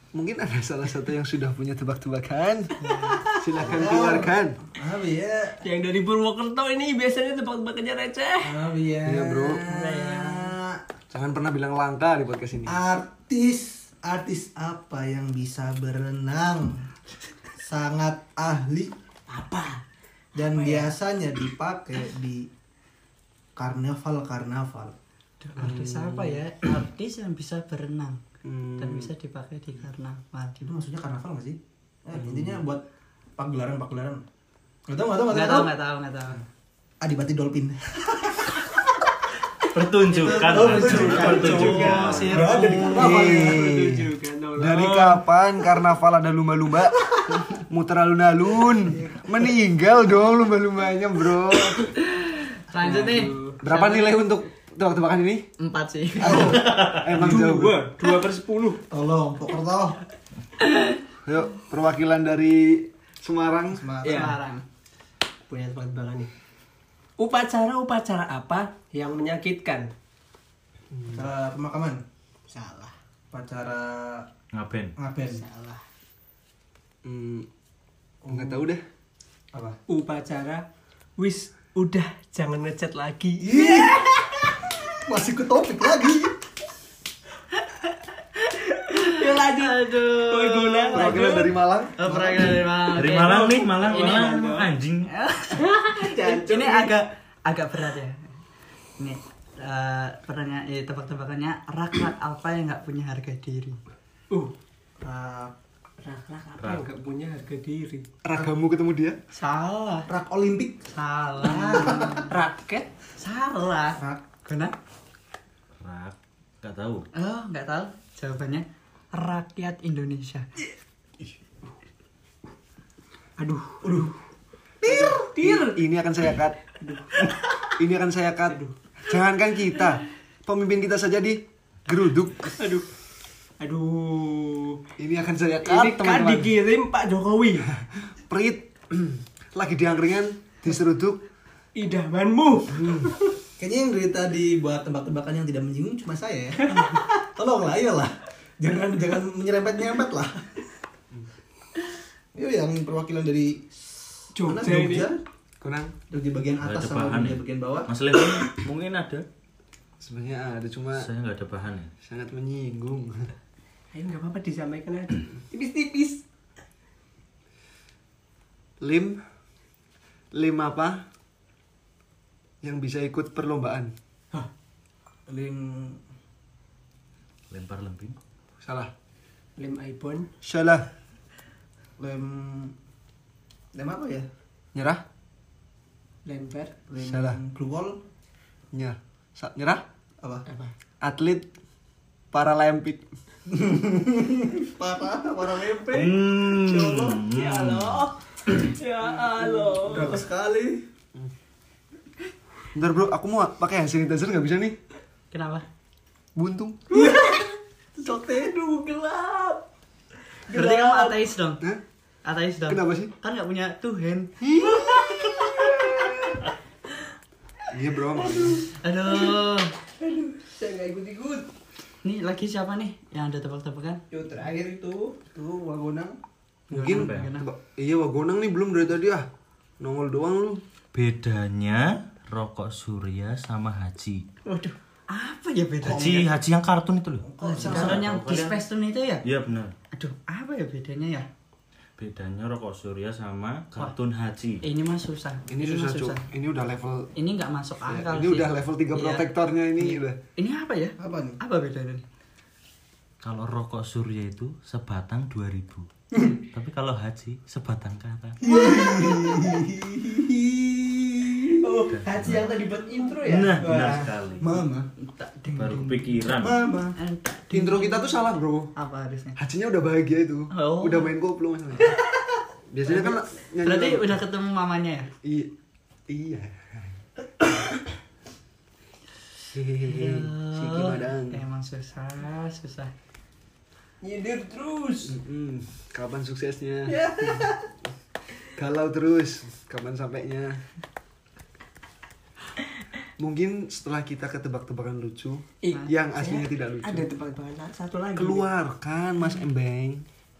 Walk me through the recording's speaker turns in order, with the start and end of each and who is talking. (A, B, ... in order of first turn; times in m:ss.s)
0:00.1-0:02.8 A
0:02.8-0:03.3 B
0:03.4-0:04.6 A
0:03.6-0:05.6 C
0:05.6-0:08.6 D
0:08.4-0:10.8 C
0:09.0-0:09.7 A
0:09.7-0:10.5 B
0:11.1-0:12.8 A
0:12.7-0:16.9 C
0:17.6-0:18.9 C
0:19.3-0:19.8 D
0:20.4-0:22.5 C
0:20.4-0:21.0 D
0:23.6-0:25.0 C
0:25.4-0:28.2 B
0:25.6-0:26.4 A
0:28.4-0:29.1 A
0:28.8-0:30.7 B
0:30.6-0:32.8 C
0:32.2-0:32.6 A
0:33.4-0:34.2 C
0:34.9-0:35.7 C
0:35.3-0:36.4 B
0:37.0-0:38.8 C
0:39.7-0:42.5 E
0:40.1-0:43.6 C
0:40.6-0:43.2 B
0:40.6-0:45.2 D
0:43.0-0:51.9 A
0:48.8-0:49.3 C
0:52.0-0:54.2 B
0:52.8-0:53.6 D
0:53.6-0:55.5 A
0:55.6-0:56.7 B
0:56.2-0:56.8 C
0:56.2-0:57.8 A
0:56.4-0:57.1 E
0:57.1-0:58.8 D
0:58.9-1:00.0 C
1:00.6-1:01.0 B
1:01.2-1:03.9 A
1:03.7-1:04.4 C
1:04.0-1:04.6 B
1:04.0-1:04.4 D
1:05.5-1:06.3 D
1:07.2-1:09.9 D
1:10.9-1:11.3 A
1:11.1-1:12.0 C
1:12.5-1:12.9 D
1:13.3-1:14.3 C
1:14.5-1:15.0 E
1:15.0-1:15.4 C
1:15.2-1:15.8 D
1:17.0-1:17.5 A
1:18.2-1:18.7 C
1:18.3-1:18.8 A
1:19.9-1:20.6 D
1:21.2-1:23.9 D
1:23.4-1:26.4 C
1:27.8-1:33.7 B
1:29.0-1:31.5 D
1:30.9-1:32.6 A
1:32.9-1:35.1 E
1:33.2-1:34.7 D
1:35.1-1:38.3 B
1:35.6-1:36.9 D
1:39.0-1:43.8 B
1:45.0-1:45.5 C
1:46.0-1:48.1 D
1:46.6-1:46.9 E
1:48.2-1:49.2 A
1:49.3-1:50.1 B
1:50.1-1:50.8 C
1:50.9-1:52.3 B
1:51.5-1:52.2 C
1:52.3-1:52.9 D
1:53.2-1:54.8 B
1:54.0-1:54.2 C
1:55.8-1:57.1 E
1:57.1-2:00.5 B
2:03.4-2:04.2 D
2:03.8-2:04.1 C
2:04.8-2:05.2 C
2:04.8-2:05.8 D
2:04.9-2:06.6 A
2:06.8-2:07.7 D
2:07.8-2:12.6 A
2:12.6-2:12.9 D
2:13.6-2:14.8 D
2:15.0-2:16.5 A
2:15.6-2:17.7 D
2:17.8-2:21.2 A
2:21.8-2:23.3 D
2:22.7-2:23.1 A
2:23.6-2:30.5 C
2:32.3-2:33.7 C
2:34.4-2:35.1 D
2:34.4-2:35.2 C
2:35.6-2:36.0 A
2:36.1-2:37.9 C
2:36.6-2:39.2 E
2:40.0-2:41.1 A
2:41.0-2:41.9 E
2:42.0-2:43.3 A
2:43.9-2:46.2 D
2:48.8-2:49.2 A
2:50.3-2:51.1 A
2:52.6-2:53.9 A
2:55.3-2:56.0 C
2:57.5-2:58.2 E
2:58.6-2:58.9 A
2:59.6-3:00.3 D
3:00.4-3:00.9 A
3:02.0-3:02.7 C
3:03.7-3:04.3 C
3:04.7-3:05.0 A
3:06.2-3:06.8 D
3:06.9-3:08.0 C
3:07.0-3:07.4 A
3:08.7-3:09.8 A
3:10.5-3:10.7 D
3:11.0-3:11.5 A
3:12.3-3:13.1 A
3:13.5-3:18.0 C
3:15.8-3:18.0 E
3:18.5-3:20.3 D
3:19.6-3:20.8 C
3:22.7-3:24.8 A
3:25.3-3:25.6 B
3:26.4-3:26.8 A
3:26.9-3:27.5 D
3:26.9-3:27.4 C
3:28.0-3:29.6 C
3:28.6-3:29.2 D
3:30.5-3:31.3 D
3:30.5-3:31.6 B
3:32.2-3:34.4 B
3:32.7-3:33.1 A
3:34.4-3:36.2 A
3:37.7-3:38.6 A
3:38.3-3:38.6 D
3:38.6-3:39.7 B
3:40.0-3:41.5 D
3:42.0-3:44.0 B
3:44.1-3:45.2 D
3:45.3-3:46.2 C
3:46.7-3:47.5 B
3:46.7-3:49.3 A
3:46.8-3:47.3 E
3:49.8-3:50.6 A
3:50.9-3:54.2 E
3:54.4-3:56.2 B
3:55.8-3:58.6 E
3:55.9-3:56.3 A
3:57.2-3:58.0 C
3:57.4-3:59.2 B
3:57.8-3:58.1 A
3:59.2-3:59.8 E
3:59.9-4:01.3 B
4:02.0-4:04.6 E
4:04.6-4:06.2 B
4:05.5-4:07.1 A
4:07.2-4:12.0 B
4:07.9-4:10.2 A
4:11.0-4:11.4 C
4:13.2-4:18.4 E
4:18.4-4:21.8 C
4:21.6-4:24.1 D
4:21.9-4:22.6 E
4:23.2-4:24.5 E
4:23.6-4:24.9 C
4:25.0-4:26.3 B
4:25.6-4:26.6 E
4:26.3-4:27.0 C
4:27.0-4:29.4 B
4:27.5-4:28.7 A
4:29.4-4:32.0 A
4:30.5-4:31.1 B
4:32.7-4:34.2 A
4:33.6-4:35.1 B
4:35.2-4:35.6 A
4:36.1-4:37.0 A
4:39.5-4:41.4 A
4:39.8-4:42.9 B
4:44.0-4:45.2 D
4:45.0-4:47.0 A
4:46.9-4:47.6 D
4:48.6-4:50.6 A
4:53.2-4:57.1 A
4:55.6-4:58.5 D
4:58.2-5:00.0 A